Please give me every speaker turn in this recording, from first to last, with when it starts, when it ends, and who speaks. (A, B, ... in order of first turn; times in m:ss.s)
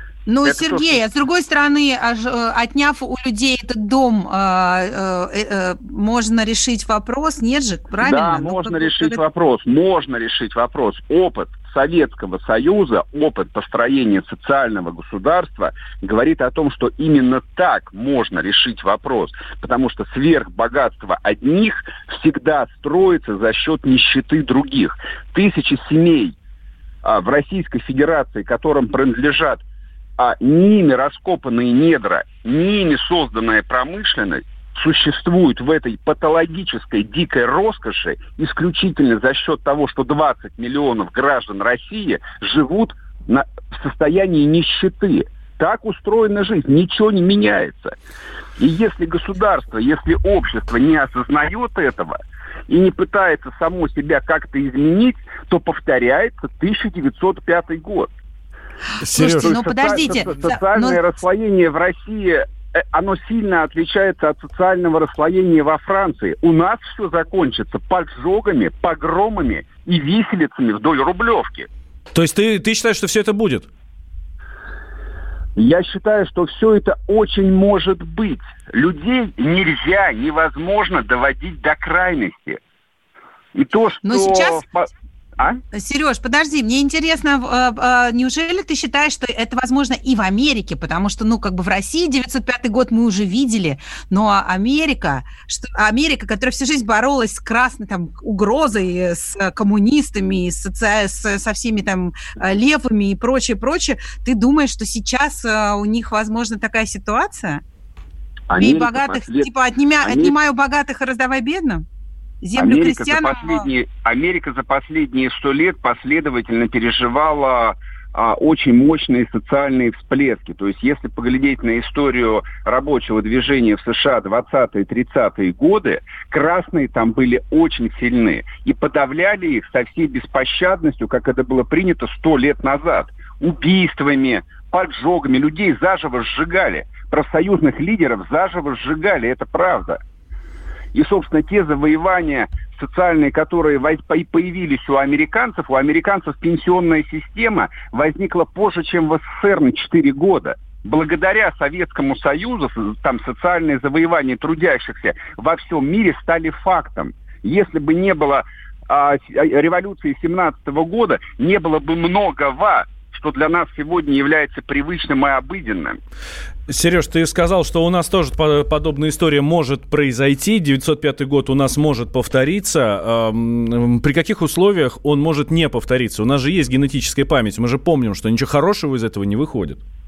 0:00.3-0:09.2 A
0:00.4-0:01.0 B
0:08.0-0:26.3 B
0:27.0-0:29.6 B
0:30.2-0:47.9 B
0:48.6-0:58.1 B
0:59.0-1:00.2 C
0:59.1-1:01.0 A
0:59.3-1:11.7 B
1:12.1-1:13.7 C
1:15.6-1:22.6 B
1:23.5-1:25.6 B
1:24.0-1:24.6 A
1:25.7-1:47.6 A
1:48.5-1:49.5 B
1:48.6-1:51.8 A
1:50.0-1:50.3 B
1:52.4-1:53.7 A
1:52.6-2:20.0 B
2:20.9-2:46.0 B
2:46.7-2:59.8 C